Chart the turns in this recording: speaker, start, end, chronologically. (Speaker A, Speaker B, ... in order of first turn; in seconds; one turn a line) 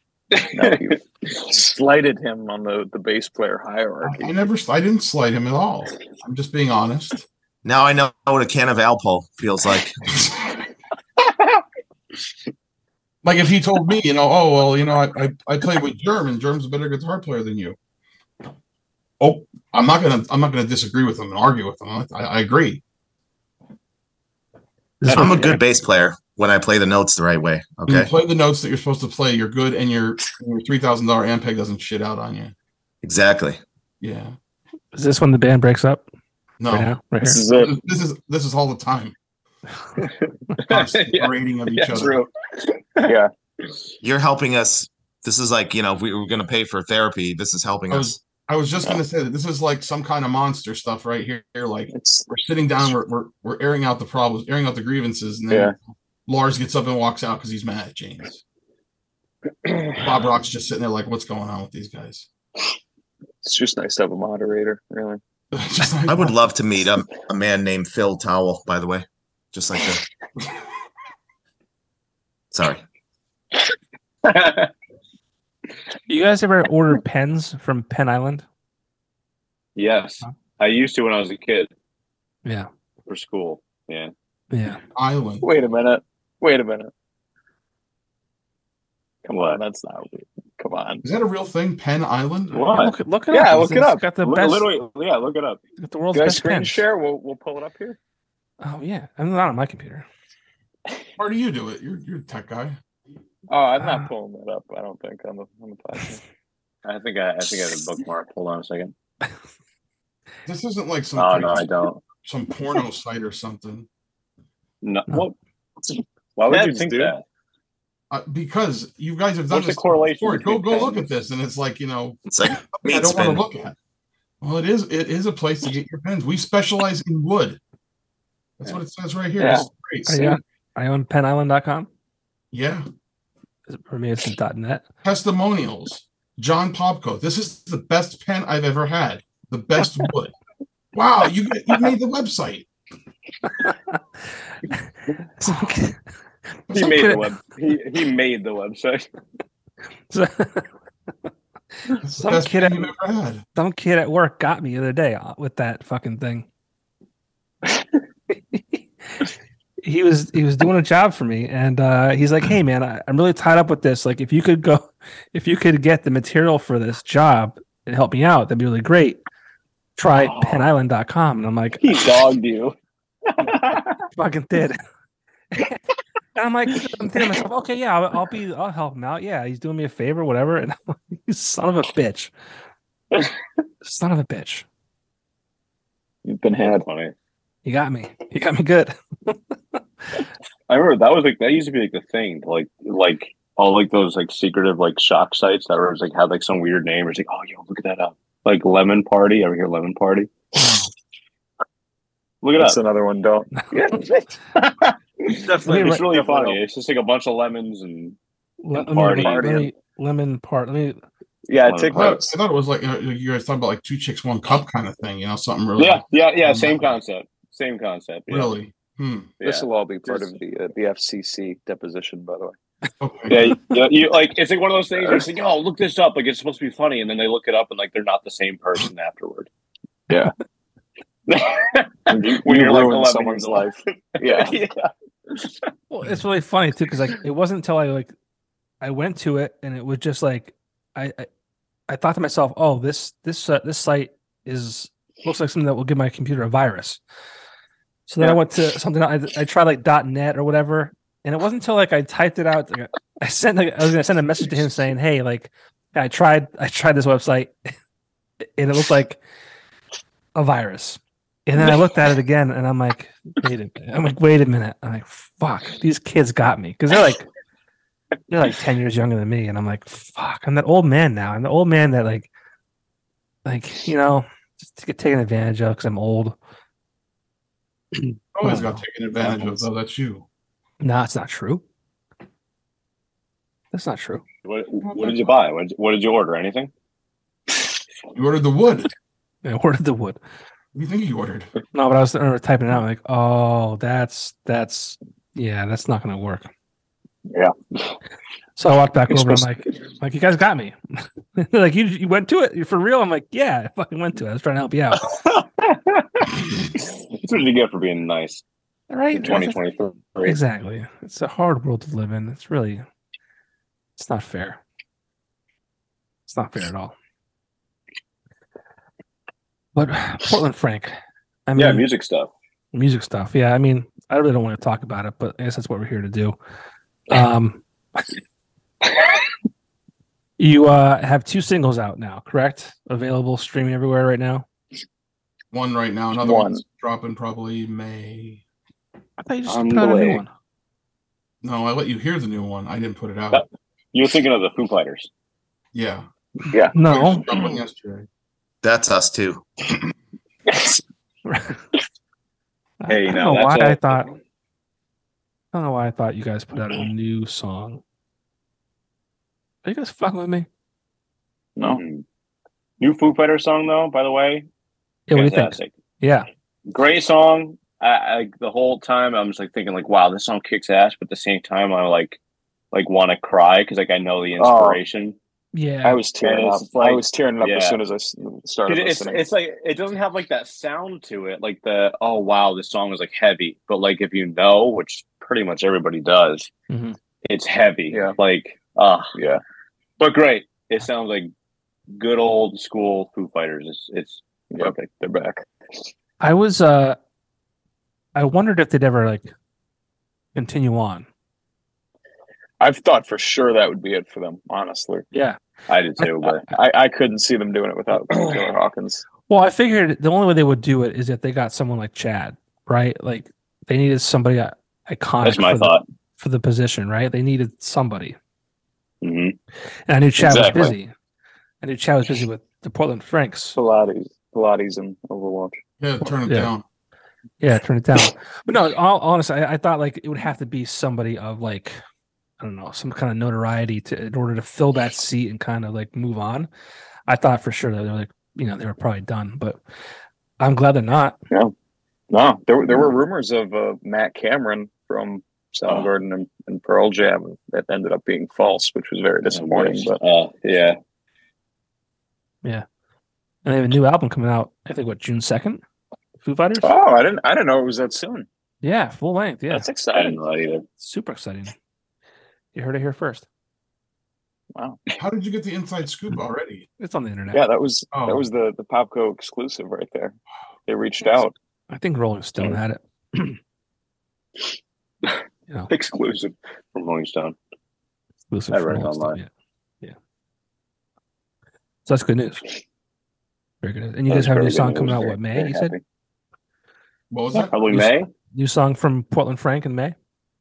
Speaker A: 0.4-0.8
Speaker B: 0.4-4.3
Speaker C: 4.0-7.3
Speaker D: 7.6-10.0
Speaker C: 10.1-10.6
Speaker C: 13.2-17.8
Speaker C: 19.2-22.8
Speaker E: 25.0-25.6
Speaker D: 25.1-28.1
Speaker C: 27.9-32.5
Speaker D: 33.0-33.6
Speaker C: 34.0-34.4
Speaker E: 34.9-36.0
Speaker C: 36.6-36.9
Speaker E: 36.7-37.4
Speaker B: 37.2-37.7
Speaker C: 37.5-39.2
Speaker A: 40.6-43.1
Speaker C: 40.7-42.2
Speaker D: 44.0-48.2
Speaker C: 47.9-58.4
Speaker B: 51.9-52.3
Speaker C: 60.0-62.3
Speaker B: 63.4-65.2
Speaker C: 65.5-66.4
Speaker D: 66.1-70.0
Speaker D: 72.5-72.8
Speaker A: 74.2-74.7
Speaker E: 76.1-78.5
Speaker A: 79.8-81.7
Speaker A: 83.1-84.1
Speaker E: 84.5-84.8
Speaker C: 85.0-85.5
Speaker B: 85.4-86.9
Speaker B: 89.3-91.0
Speaker A: 89.3-89.6
Speaker C: 91.0-92.6
Speaker A: 92.5-92.9
Speaker E: 92.7-94.7
Speaker B: 93.3-94.0
Speaker A: 94.2-95.6
Speaker E: 95.8-96.8
Speaker B: 96.1-98.0
Speaker E: 98.6-100.1
Speaker C: 101.2-102.8
Speaker B: 103.5-106.2
Speaker E: 103.8-104.1
Speaker A: 106.8-108.9
Speaker C: 110.5-111.7
Speaker A: 111.2-112.0
Speaker C: 112.2-113.9
Speaker A: 114.8-115.3
Speaker A: 116.4-117.2
Speaker B: 116.5-117.1
Speaker C: 118.1-123.8
Speaker A: 119.5-121.1
Speaker D: 122.3-123.4
Speaker C: 124.4-127.6
Speaker C: 128.6-130.4
Speaker B: 129.4-129.7
Speaker E: 130.1-131.9
Speaker C: 132.5-132.9
Speaker E: 133.7-134.8
Speaker C: 135.0-140.3
Speaker C: 140.9-142.7
Speaker E: 143.6-144.0
Speaker E: 145.4-146.0
Speaker E: 146.7-147.3
Speaker A: 146.7-149.1
Speaker E: 150.1-150.7
Speaker E: 151.9-152.9
Speaker C: 152.0-153.4
Speaker E: 153.6-156.5
Speaker E: 158.5-159.3
Speaker E: 159.8-169.2
Speaker E: 170.0-172.0
Speaker A: 170.2-170.6
Speaker A: 171.8-172.8
Speaker A: 173.3-173.9
Speaker E: 174.1-174.8
Speaker E: 175.5-175.8
Speaker E: 176.3-182.3
Speaker E: 183.8-184.7
Speaker B: 186.2-186.9
Speaker A: 186.6-187.1
Speaker E: 187.7-189.8
Speaker A: 190.7-200.3
Speaker E: 200.6-200.9
Speaker A: 202.4-202.8
Speaker B: 202.6-206.6
Speaker A: 205.3-208.2
Speaker E: 205.5-206.1
Speaker E: 208.6-211.0
Speaker A: 208.8-209.6
Speaker B: 209.1-209.7
Speaker B: 211.5-212.3
Speaker A: 211.6-212.2
Speaker C: 211.9-216.9
Speaker A: 215.8-218.6
Speaker C: 218.3-219.3
Speaker A: 219.4-220.4
Speaker B: 219.4-222.6
Speaker C: 223.0-223.4
Speaker A: 223.3-229.5
Speaker A: 231.3-235.5
Speaker B: 232.1-234.6
Speaker E: 235.9-238.1
Speaker E: 238.8-241.3
Speaker E: 241.9-247.0
Speaker E: 248.1-257.5
Speaker E: 258.6-259.2
Speaker E: 260.4-267.3
Speaker E: 268.3-272.3
Speaker E: 273.4-276.4
Speaker C: 278.3-280.2
Speaker E: 278.4-278.8
Speaker E: 280.8-281.6
Speaker E: 283.7-284.2
Speaker A: 284.4-286.7
Speaker C: 284.8-285.3
Speaker C: 288.1-288.9
Speaker E: 289.4-290.2
Speaker C: 290.8-291.5
Speaker E: 291.7-296.5
Speaker E: 298.6-305.1
Speaker A: 305.1-308.4
Speaker E: 308.9-309.6
Speaker A: 309.1-310.4
Speaker E: 310.2-312.8
Speaker E: 314.0-314.6
Speaker E: 316.3-316.9
Speaker E: 319.8-320.9
Speaker E: 321.5-321.9
Speaker A: 321.6-322.3
Speaker E: 322.7-326.4
Speaker E: 327.1-327.6
Speaker E: 330.4-334.5
Speaker C: 335.5-338.4
Speaker B: 336.1-336.6
Speaker E: 339.2-340.3
Speaker A: 339.5-340.2
Speaker C: 341.4-343.4
Speaker A: 343.3-345.1
Speaker C: 345.7-346.1
Speaker E: 346.7-347.2
Speaker C: 346.7-348.1
Speaker D: 348.6-349.4
Speaker E: 351.3-351.6
Speaker E: 352.8-354.1
Speaker A: 352.9-354.0
Speaker E: 355.5-357.8
Speaker E: 359.6-360.5
Speaker A: 361.7-362.0
Speaker A: 362.8-364.5
Speaker E: 365.1-366.3
Speaker A: 365.1-365.7
Speaker A: 366.7-372.2
Speaker A: 372.7-375.2
Speaker B: 374.4-374.8
Speaker E: 375.5-376.0
Speaker B: 375.8-379.3
Speaker A: 376.2-377.8
Speaker A: 378.7-386.5
Speaker E: 386.7-387.0
Speaker A: 387.2-389.1
Speaker B: 389.2-389.4
Speaker A: 390.0-391.3
Speaker A: 391.9-394.9
Speaker B: 394.5-395.4
Speaker E: 396.2-397.0
Speaker E: 398.2-399.3
Speaker E: 400.4-401.1
Speaker B: 402.6-405.1
Speaker E: 405.1-405.4
Speaker A: 405.7-406.5
Speaker B: 406.4-409.0
Speaker A: 408.1-408.4
Speaker E: 409.3-418.2
Speaker A: 415.2-415.8
Speaker A: 419.0-419.4
Speaker E: 419.9-420.9
Speaker A: 420.2-420.8
Speaker E: 421.6-423.6
Speaker B: 423.5-425.6
Speaker C: 425.8-426.6
Speaker E: 427.4-431.8
Speaker E: 432.4-436.5
Speaker E: 437.1-439.6
Speaker E: 440.4-441.2
Speaker B: 442.1-450.0
Speaker A: 449.3-450.8
Speaker E: 453.4-455.6
Speaker E: 456.2-456.7
Speaker B: 456.6-458.3
Speaker E: 458.6-459.7
Speaker B: 459.5-460.2
Speaker A: 459.9-460.6
Speaker E: 460.8-461.5
Speaker E: 462.5-463.3
Speaker B: 464.6-464.8
Speaker C: 465.0-466.7
Speaker E: 466.8-467.5
Speaker B: 467.3-470.2
Speaker C: 467.9-468.3
Speaker B: 470.7-471.4
Speaker E: 471.7-473.4
Speaker A: 475.7-477.4
Speaker E: 478.3-479.3
Speaker A: 478.5-479.2
Speaker E: 481.9-482.4
Speaker E: 483.6-485.8
Speaker B: 484.1-485.8
Speaker A: 484.7-485.0
Speaker C: 487.1-487.5
Speaker A: 487.3-488.1
Speaker E: 487.7-489.9